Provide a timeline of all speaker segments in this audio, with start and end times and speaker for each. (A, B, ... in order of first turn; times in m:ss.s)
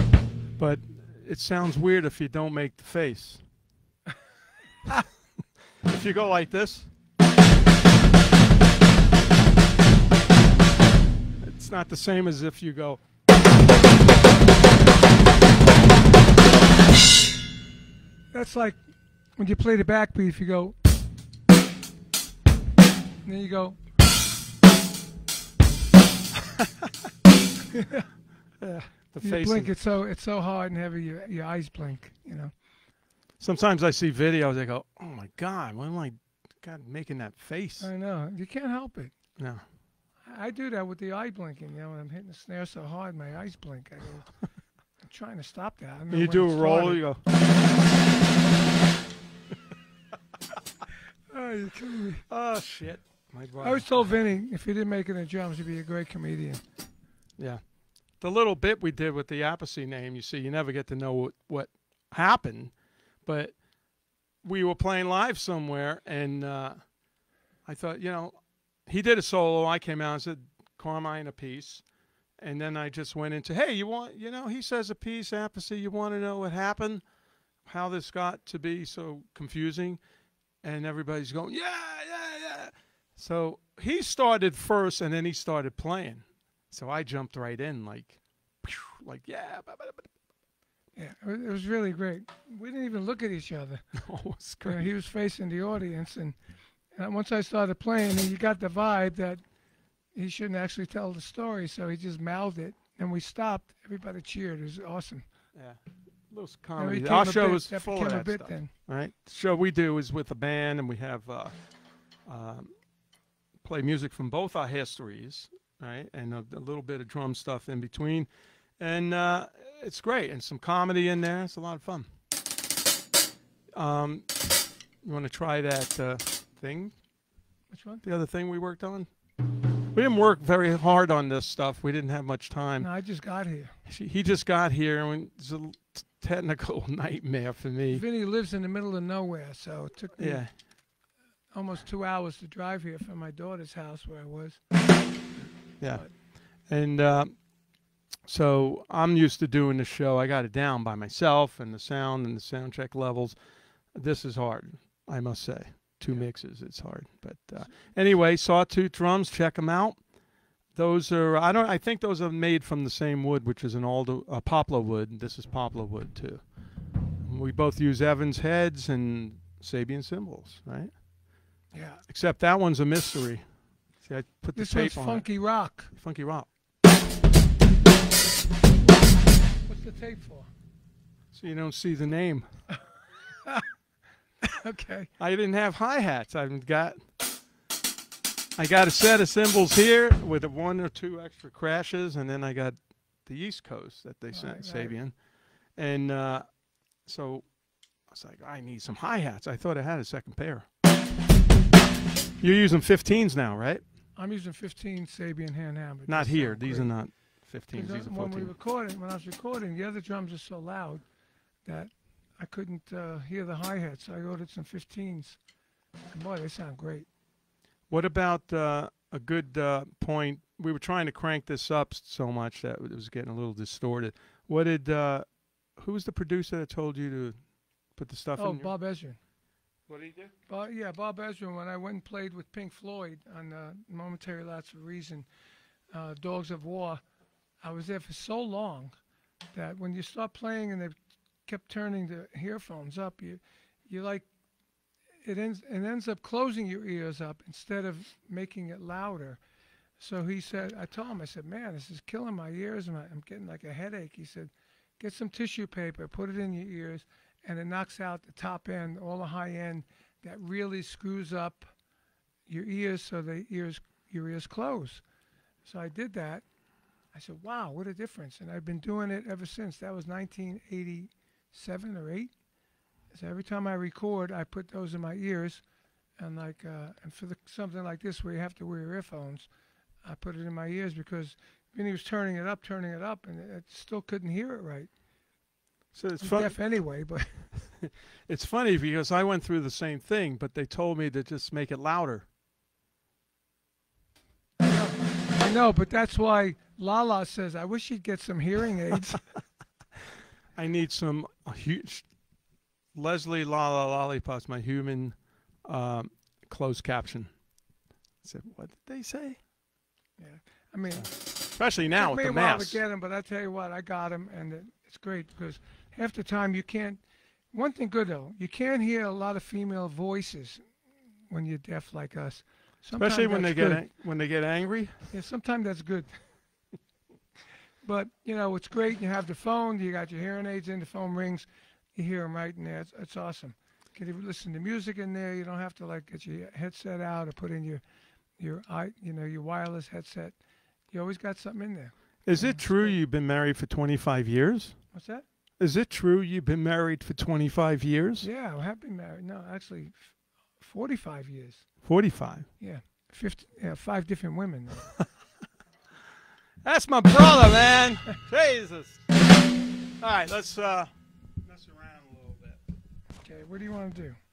0:00.6-0:03.4 A
0:05.8-0:06.9 A
0:11.4-0:13.0 A
0:18.3-0:18.8 B
0:19.4-0:20.8 B
0:23.2-0:23.8 B
0:27.7-0:28.1 B
0:28.6-0:29.7 A
0:29.2-0:32.5 B
0:33.4-0:37.9 A
0:37.8-0:39.1 B
0:39.4-0:39.6 A
0:40.2-0:44.4 B
0:45.0-0:47.0 B
0:46.1-0:47.2 A
0:51.3-0:52.2 B
0:52.3-0:53.9 A
0:53.6-0:56.6 B
0:58.1-1:02.7 A
1:03.2-1:03.5 A
1:04.4-1:06.8 A
1:07.6-1:11.8 A
1:12.4-1:17.0 A
1:17.6-1:20.0 A
1:20.6-1:30.1 A
1:31.0-1:33.8 B
1:33.9-1:34.9 A
1:34.6-1:36.4 B
1:36.9-1:39.4 B
1:40.1-1:45.2 B
1:45.5-1:51.5 A
1:46.8-1:48.7 B
1:52.2-1:52.7 A
1:53.6-2:02.1 A
2:03.7-2:04.3 A
2:05.0-2:06.9 A
2:07.7-2:08.0 B
2:08.0-2:09.1 A
2:09.9-2:12.9 A
2:12.8-2:13.7 B
2:13.8-2:18.0 A
2:17.9-2:20.6 B
2:20.2-2:20.5 A
2:21.5-2:24.6 B
2:25.8-2:27.4 A
2:28.2-2:33.4 A
2:33.9-2:40.1 A
2:40.7-2:46.5 A
2:47.2-2:50.9 A
2:51.7-2:52.0 B
2:52.1-2:55.3 A
2:54.5-2:55.9 B
2:55.9-2:56.5 A
2:59.7-3:00.5 B
3:01.3-3:02.5 A
3:04.4-3:05.1 B
3:05.2-3:07.0 A
3:08.6-3:15.1 A
3:14.3-3:14.9 B
3:15.8-3:16.5 A
3:17.0-3:17.5 A
3:18.1-3:20.6 A
3:22.4-3:23.8 A
3:24.2-3:26.9 B
3:26.1-3:28.5 A
3:27.7-3:31.0 B
3:31.6-3:35.4 B
3:36.1-3:37.1 B
3:37.9-3:47.4 A
3:47.9-3:48.7 A
3:48.4-3:49.2 B
3:49.9-3:50.3 A
3:50.5-3:55.3 B
3:55.9-3:57.0 B
3:57.6-3:58.9 B
3:59.5-4:04.2 B
4:05.2-4:09.4 B
4:10.0-4:21.7 B
4:22.5-4:25.0 B
4:25.6-4:26.4 B
4:27.1-4:32.3 B
4:33.1-4:35.6 B
4:36.2-4:39.5 B
4:40.0-4:44.9 B
4:45.9-4:46.6 A
4:46.2-4:47.4 B
4:47.8-4:52.2 A
4:54.6-4:59.2 B
5:00.5-5:02.1 A
5:02.9-5:07.3 A
5:08.2-5:09.4 A
5:10.2-5:11.1 B
5:10.9-5:12.8 A
5:12.0-5:17.0 B
5:17.5-5:20.6 B
5:21.3-5:23.8 B
5:23.0-5:25.1 A
5:25.1-5:26.1 B
5:27.8-5:37.8 B
5:38.4-5:40.3 B
5:40.9-5:43.0 B
5:42.2-5:44.8 A
5:44.9-5:45.2 B
5:45.6-5:48.3 A
5:48.2-5:51.6 B
5:51.8-5:52.5 A
5:52.6-5:54.9 B
5:56.6-5:59.0 A
6:00.0-6:00.9 A
6:01.4-6:02.6 A
6:03.2-6:04.2 B